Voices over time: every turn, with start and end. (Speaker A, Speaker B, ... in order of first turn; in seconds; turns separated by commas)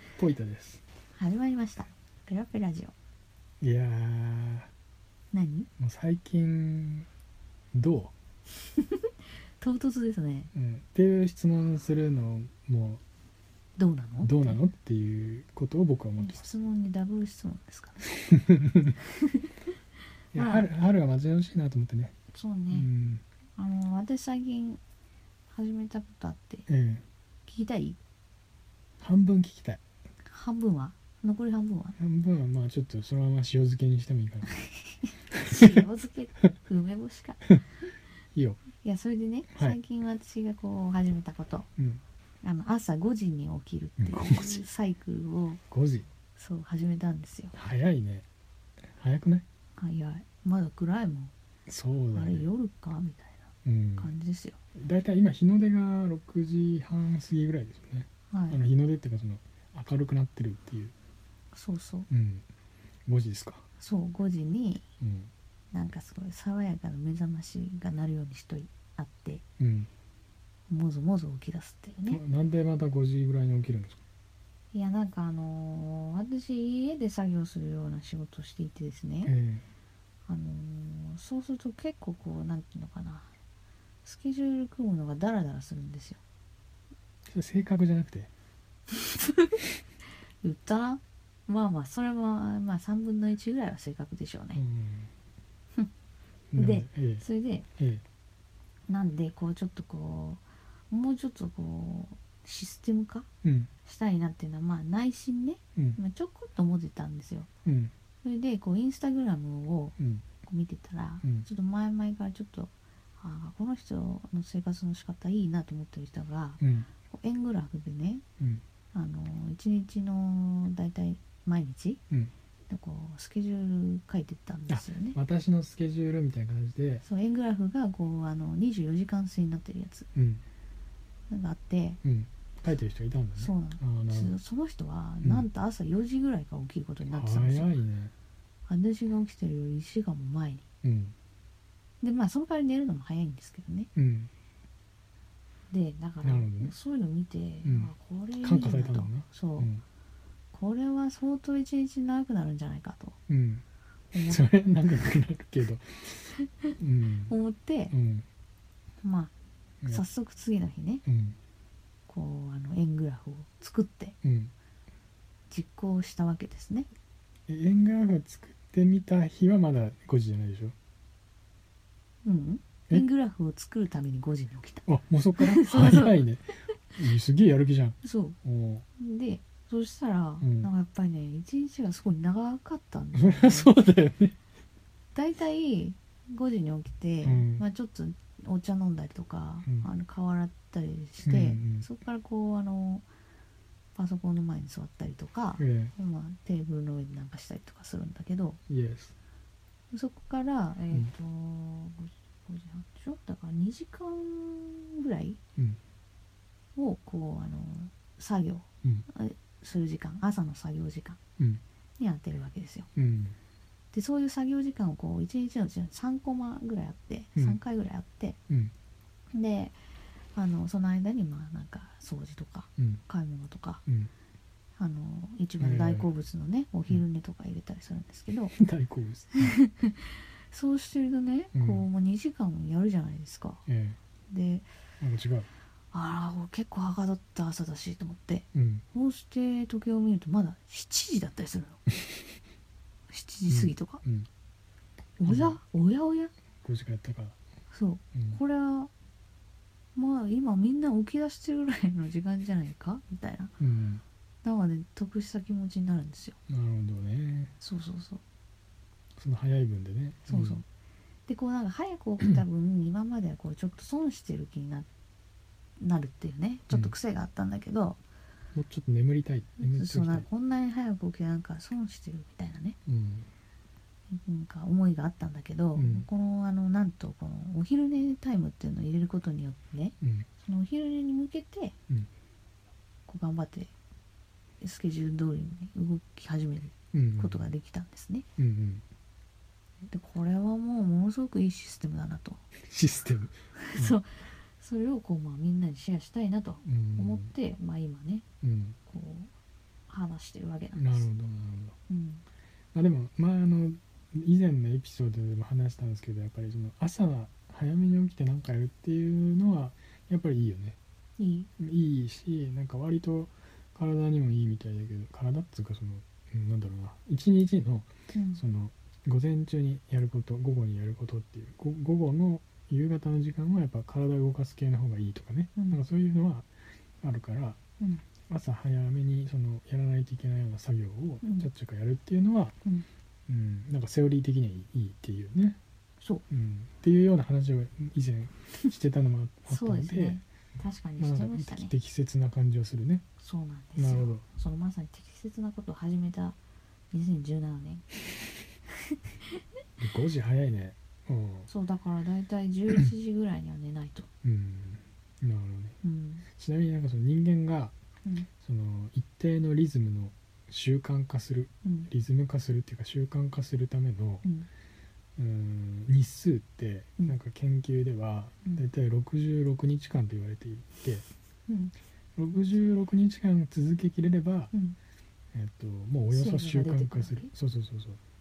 Speaker A: 0.2-0.8, Speaker B: 1.1-2.9, Speaker A: 3.6-4.7, Speaker B: 5.3-5.7, Speaker A: 5.8-7.1, Speaker A: 7.7-8.1, Speaker B: 8.7-10.5, Speaker A: 10.5-13.0, Speaker B: 13.8-14.6, Speaker A: 14.2-16.5, Speaker B: 16.2-18.3, Speaker A: 18.3-19.0, Speaker B: 19.0-19.5, Speaker B: 20.3-20.7, Speaker A: 20.3-22.1, Speaker B: 22.3-22.9, Speaker A: 22.7-23.2, Speaker B: 23.6-24.8, Speaker B: 25.5-26.7, Speaker A: 26.7-27.1, Speaker B: 27.5-28.0, Speaker A: 29.0-29.8, Speaker B: 30.3-32.0, Speaker A: 32.0-34.5, Speaker B: 34.6-37.6, Speaker A: 35.3-35.8, Speaker A: 38.4-38.6, Speaker B: 38.8-41.7, Speaker A: 39.5-39.8, Speaker A: 41.8-42.0, Speaker B: 42.4-45.6, Speaker A: 44.0-44.7, Speaker A: 45.7-46.1, Speaker B: 46.4-47.5, Speaker A: 47.5-48.3, Speaker A: 48.9-49.5, Speaker B: 49.8-51.3, Speaker A: 51.7-52.5, Speaker B: 52.1-54.6, Speaker A: 53.6-54.1, Speaker A: 54.8-60.9, Speaker B: 58.3-58.6, Speaker B: 61.5-62.1, Speaker A: 62.1-62.5, Speaker A: 63.1-63.7, Speaker B: 63.8-64.8, Speaker A: 65.0-65.3, Speaker B: 65.7-69.4, Speaker A: 69.6-69.9, Speaker B: 70.7-72.2, Speaker A: 72.1-74.0, Speaker B: 74.7-79.3, Speaker A: 79.2-79.7, Speaker B: 80.3-83.3, Speaker B: 84.0-86.2, Speaker A: 87.3-88.3, Speaker B: 88.9-89.6, Speaker B: 90.4-94.6, Speaker A: 94.5-95.1, Speaker A: 96.5-97.2, Speaker B: 96.5-97.7, Speaker A: 97.8-98.0, Speaker B: 98.9-103.3, Speaker A: 103.4-103.7, Speaker B: 103.8-107.5, Speaker A: 107.7-107.9, Speaker B: 108.2-118.2, Speaker A: 110.0-110.2, Speaker A: 116.6-116.9, Speaker B: 118.9-122.0, Speaker B: 122.7-125.2, Speaker A: 124.7-127.0, Speaker B: 127.0-130.1, Speaker A: 130.2-130.4, Speaker B: 131.3-132.0, Speaker A: 132.0-134.4, Speaker B: 133.4-137.8, Speaker A: 137.1-138.1, Speaker B: 138.7-140.7, Speaker A: 140.8-141.2, Speaker B: 142.0-143.9, Speaker A: 144.0-144.3, Speaker B: 145.7-149.7, Speaker A: 146.2-146.8, Speaker A: 147.6-149.8, Speaker B: 150.5-153.2, Speaker A: 153.3-153.6, Speaker B: 154.1-154.4, Speaker A: 154.2-157.3, Speaker B: 157.3-157.9, Speaker A: 157.9-158.3, Speaker B: 159.0-159.3, Speaker B: 159.9-161.0, Speaker A: 161.1-161.4, Speaker B: 162.1-164.2, Speaker A: 164.2-164.5, Speaker B: 165.5-166.9, Speaker A: 167.5-170.8, Speaker B: 172.2-174.9, Speaker A: 174.9-178.8, Speaker B: 175.4-176.2, Speaker B: 178.0-178.4, Speaker B: 179.0-183.7, Speaker A: 180.4-180.7, Speaker A: 183.1-184.4, Speaker B: 185.1-193.1, Speaker A: 187.2-187.7, Speaker A: 189.6-189.9, Speaker A: 191.2-191.9, Speaker B: 193.9-198.6, Speaker A: 195.6-195.9, Speaker A: 198.7-199.2, Speaker B: 199.9-205.4, Speaker B: 206.8-211.2, Speaker B: 212.0-212.9, Speaker A: 213.0-213.4, Speaker B: 213.9-218.4, Speaker B: 219.3-223.8, Speaker A: 223.9-224.1, Speaker B: 224.8-228.6, Speaker A: 225.6-226.1, Speaker A: 228.6-229.6, Speaker B: 229.4-233.6, Speaker A: 231.5-231.8, Speaker A: 233.7-234.0, Speaker B: 234.3-234.7, Speaker A: 235.0-235.5, Speaker B: 235.9-241.8, Speaker A: 238.5-238.8, Speaker B: 243.1-244.0, Speaker A: 243.5-244.3, Speaker B: 245.2-246.3, Speaker A: 245.2-245.6, Speaker A: 246.6-247.4, Speaker B: 247.7-248.9, Speaker A: 248.1-248.4, Speaker B: 249.9-253.5, Speaker A: 253.6-254.0, Speaker B: 254.4-256.4, Speaker A: 256.5-257.6, Speaker B: 257.6-258.2, Speaker A: 259.2-260.6, Speaker B: 260.3-260.6, Speaker B: 261.3-264.9, Speaker B: 265.8-268.0, Speaker A: 268.5-270.3, Speaker B: 269.6-272.8, Speaker A: 272.9-273.3, Speaker B: 274.1-281.8, Speaker A: 275.8-276.1, Speaker A: 280.0-280.3, Speaker B: 283.1-283.7, Speaker B: 284.6-288.3, Speaker A: 286.9-287.5, Speaker A: 288.4-288.8, Speaker B: 289.9-292.4, Speaker A: 292.6-294.0, Speaker B: 293.6-298.2, Speaker A: 296.6-297.3, Speaker A: 298.4-298.8, Speaker B: 298.9-299.3, Speaker B: 299.9-301.1, Speaker A: 300.8-301.8, Speaker B: 301.9-302.2, Speaker A: 302.7-310.8, Speaker B: 311.2-311.5, Speaker A: 311.6-327.6, Speaker B: 318.1-318.4, Speaker B: 325.6-325.8, Speaker A: 328.3-332.6, Speaker B: 331.2-331.5, Speaker A: 333.3-335.6, Speaker A: 336.3-340.2, Speaker B: 339.5-341.7, Speaker A: 341.0-343.1, Speaker B: 343.2-346.4, Speaker A: 343.8-344.2, Speaker B: 346.9-347.9, Speaker A: 349.8-351.5, Speaker B: 351.5-354.1, Speaker A: 354.2-355.8, Speaker B: 355.8-356.2, Speaker A: 356.4-357.7, Speaker A: 358.4-364.2, Speaker B: 361.6-361.9, Speaker A: 365.2-371.1, Speaker B: 371.5-371.7, Speaker A: 372.2-374.5, Speaker B: 374.5-374.8, Speaker A: 375.3-378.0, Speaker B: 376.1-377.3